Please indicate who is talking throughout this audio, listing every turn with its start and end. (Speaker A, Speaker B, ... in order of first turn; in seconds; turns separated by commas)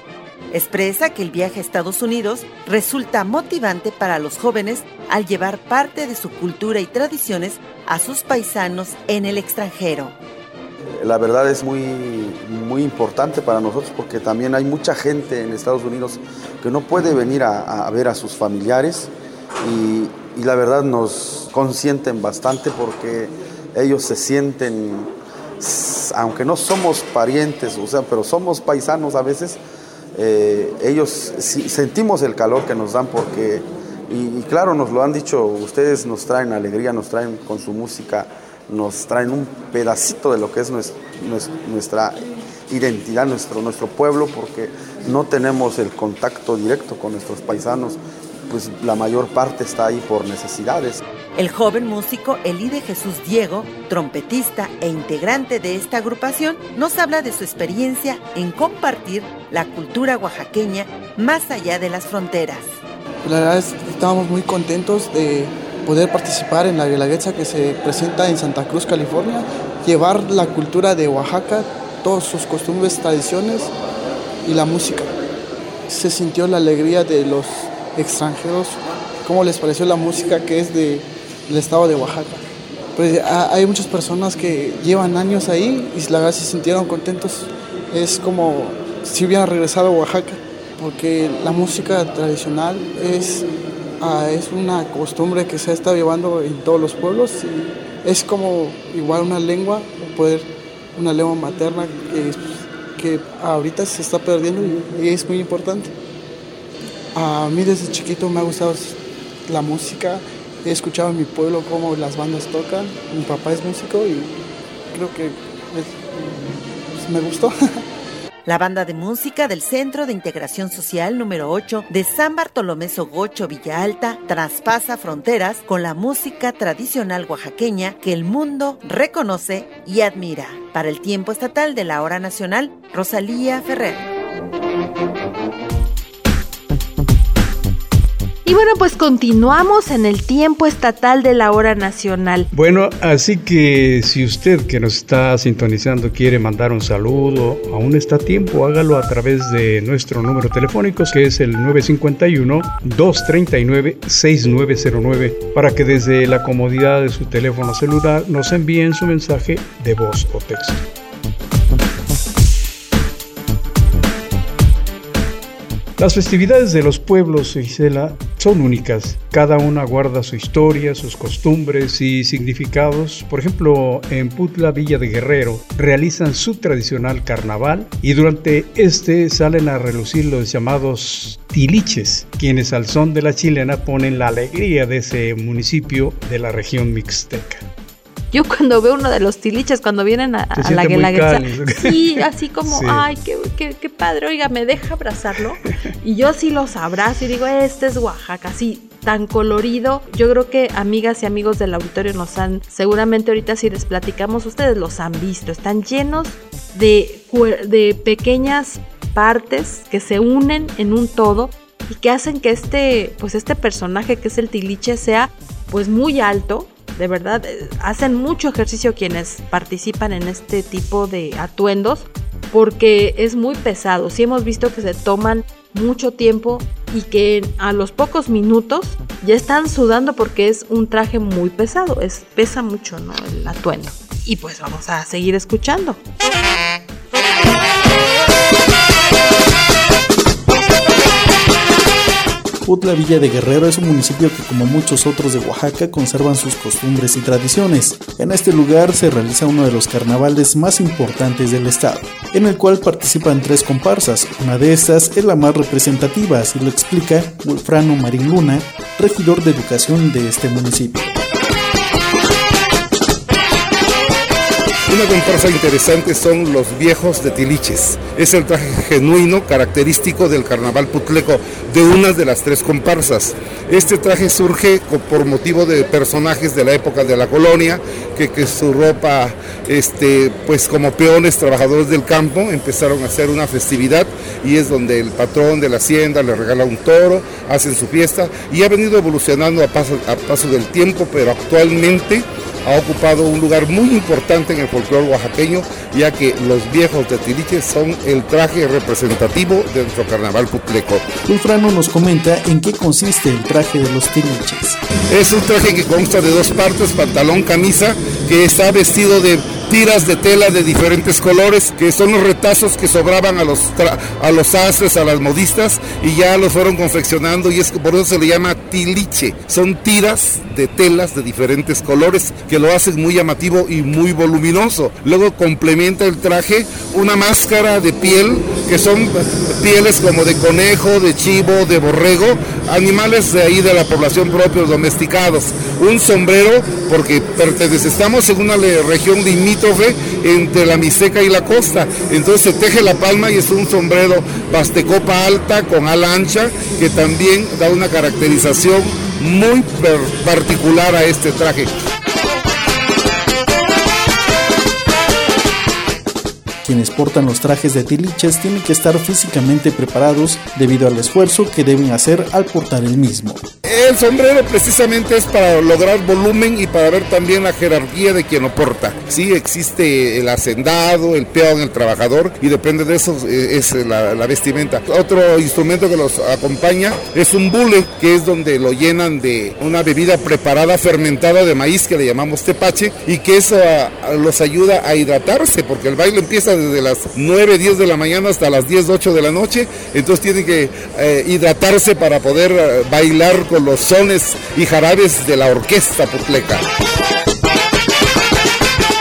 Speaker A: 0.5-10.2, Speaker B: 11.0-19.1, Speaker B: 19.6-29.6, Speaker B: 30.1-51.0, Speaker A: 51.4-62.8, Speaker C: 63.2-73.7, Speaker C: 74.4-75.1, Speaker C: 75.9-82.4, Speaker C: 83.0-93.5, Speaker C: 94.0-105.9, Speaker C: 107.2-117.5, Speaker A: 118.5-134.1, Speaker D: 138.4-142.5, Speaker E: 142.5-160.8, Speaker E: 166.0-187.7, Speaker D: 188.3-236.0, Speaker E: 190.6-193.1, Speaker F: 242.7-261.1, Speaker G: 264.9-301.0, Speaker F: 301.3-304.8, Speaker G: 305.1-351.7, Speaker F: 356.6-363.4, Speaker G: 363.7-396.6